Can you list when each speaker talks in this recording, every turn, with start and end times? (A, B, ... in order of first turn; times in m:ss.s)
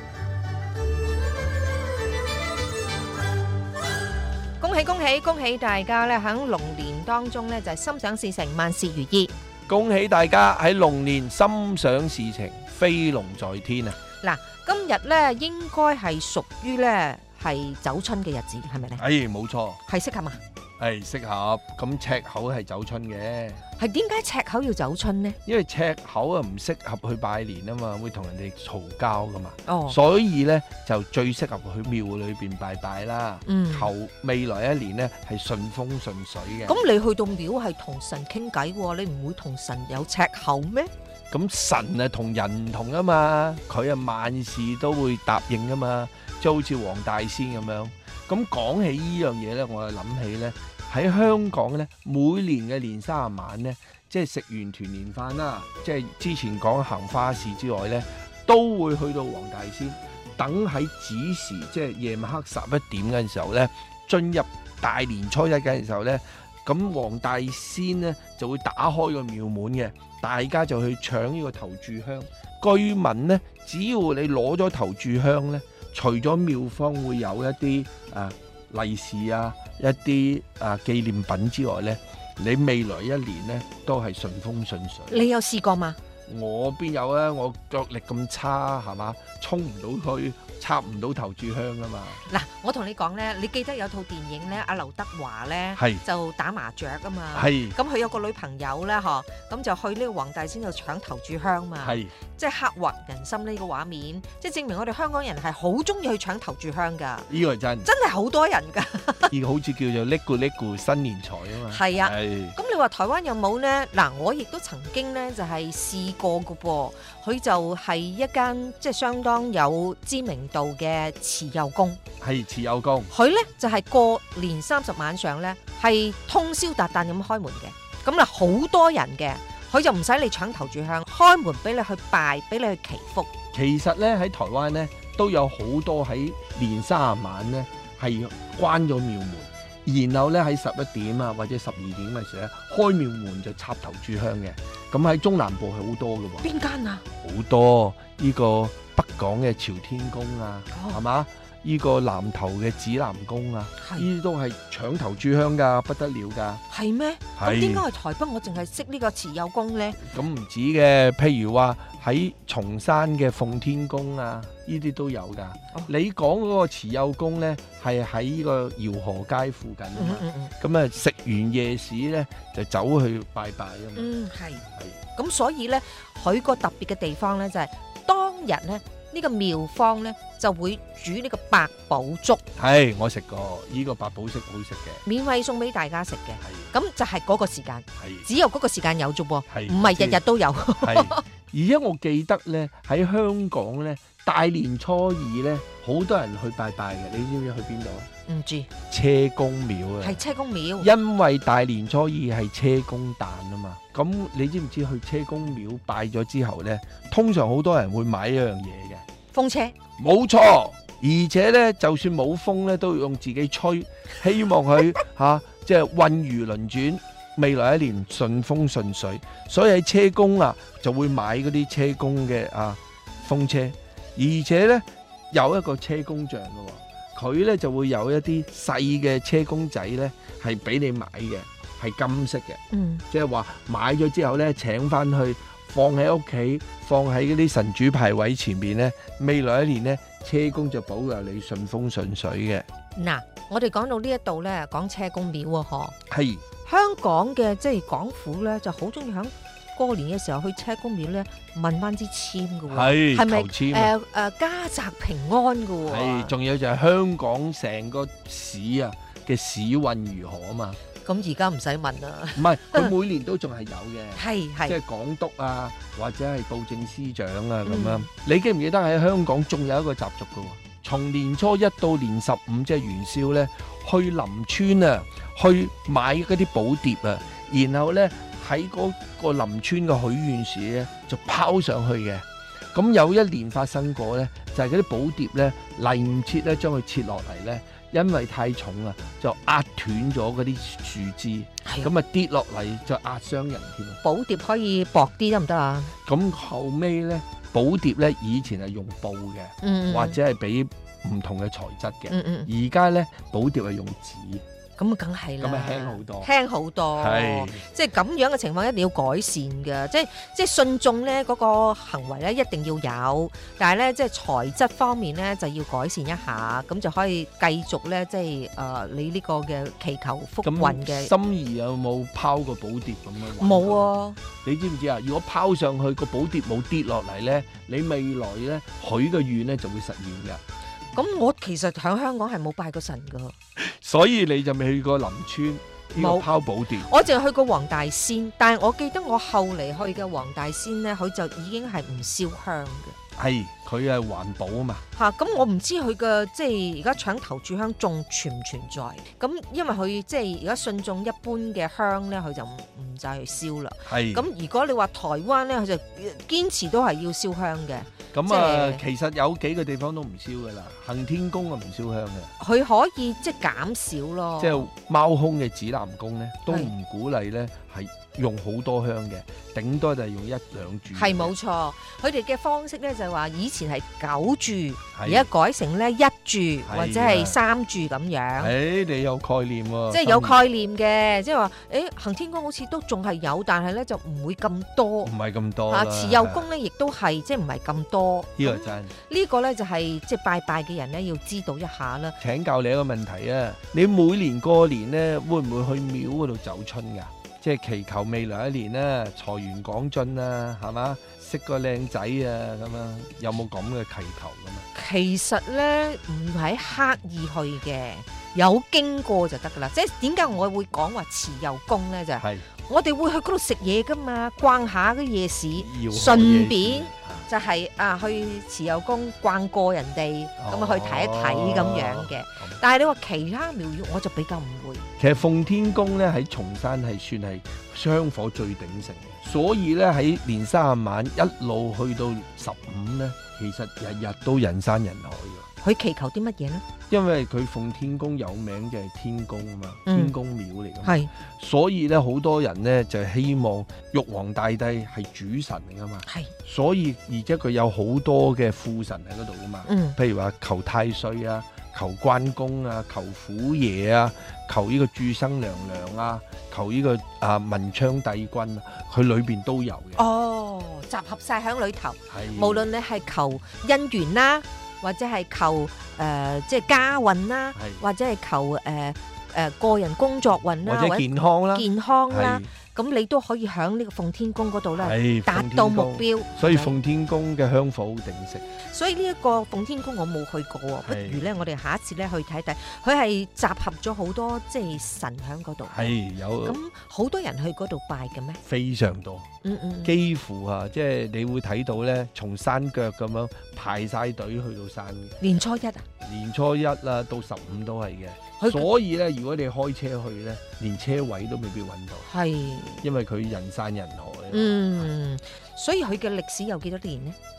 0:04.6-0:09.3 A
0:09.7-0:14.0 B
0:14.2-0:19.0 A
0:19.0-0:19.8 B
0:19.9-0:20.4 A
0:20.8-0:23.6 B
0:23.8-0:25.4 A
0:25.5-0:36.8 B
0:29.7-0:30.0 A
0:33.5-0:33.9 A
0:36.7-0:40.9 A
0:41.3-1:25.3 B
1:25.1-1:26.0 A
1:26.3-1:32.2 B
1:32.2-1:47.3 A
1:35.8-1:36.0 B
1:37.3-1:37.8 B
1:41.8-1:42.1 B
1:47.3-1:47.9 B
1:47.8-1:49.3 A
1:49.3-1:52.6 B
1:51.7-2:02.0 A
2:02.2-2:03.1 B
2:03.1-2:13.3 A
2:13.5-2:26.5 B
2:26.4-2:27.0 A
2:27.2-2:36.6 B
2:30.7-2:31.0 A
2:33.8-2:34.1 A
2:36.7-2:40.0 A
2:37.4-2:37.8 B
2:40.0-2:54.1 B
2:50.0-2:50.5 A
2:54.0-3:02.4 A
3:02.6-3:05.0 B
3:05.1-3:11.2 A
3:06.4-3:06.7 B
3:08.0-3:08.3 B
3:09.5-3:10.2 B
3:10.8-3:18.1 B
3:18.3-3:18.7 A
3:18.9-3:20.2 B
3:20.0-3:20.9 A
3:20.8-3:29.0 B
3:29.3-3:29.8 A
3:30.0-4:02.7 B
3:52.7-3:53.0 A
4:03.0-4:06.0 A
4:06.1-4:06.4 B
4:06.6-4:16.3 A
4:12.7-4:13.9 B
4:15.8-4:20.8 B
4:21.0-4:22.9 A
4:22.4-4:54.0 B
4:24.2-4:24.8 A
4:27.6-4:28.1 A
4:51.6-4:51.9 A
4:54.0-4:55.9 A
4:56.1-5:04.4 B
4:59.6-5:00.2 A
5:02.1-5:02.5 A
5:04.8-5:21.1 A
5:05.4-5:06.3 B
5:07.0-5:07.6 B
5:20.4-5:23.9 B
5:23.4-5:24.2 A
5:24.4-5:30.4 B
5:30.9-5:33.4 A
5:33.6-5:37.0 B
5:36.0-5:36.3 A
5:36.8-5:43.0 A
5:43.2-5:44.8 B
5:45.0-5:58.8 A
5:53.9-5:54.3 B
5:58.1-6:02.3 B
6:02.4-6:04.7 A
6:04.4-6:11.3 B
6:11.0-6:18.5 A
6:15.0-6:15.3 B
6:16.7-6:17.4 B
6:18.4-6:20.4 B
6:19.9-6:25.1 A
6:25.0-6:26.5 B
6:25.7-6:32.2 A
6:28.4-6:28.9 B
6:32.2-6:44.7 B
6:44.7-7:04.9 A
6:52.2-6:52.5 B
6:55.6-6:57.3 B
7:00.4-7:02.6 B
7:05.0-7:15.5 B
7:15.6-7:16.6 A
7:16.9-7:40.0 B
7:19.9-7:20.1 A
7:20.8-7:21.1 A
7:26.1-7:26.3 A
7:29.7-7:30.0 A
7:40.0-7:56.8 A
7:42.1-7:42.7 B
7:47.6-7:47.8 B
7:50.6-7:52.5 B
7:54.8-7:58.4 B
7:58.7-8:08.4 A
8:00.8-8:01.2 B
8:05.7-8:06.6 B
8:08.4-8:09.3 B
8:09.4-8:09.9 A
8:09.8-8:15.2 B
8:15.2-8:15.8 A
8:16.0-8:22.1 B
8:18.4-8:18.7 A
8:22.1-8:22.8 A
8:22.8-8:24.9 B
8:24.3-8:27.2 A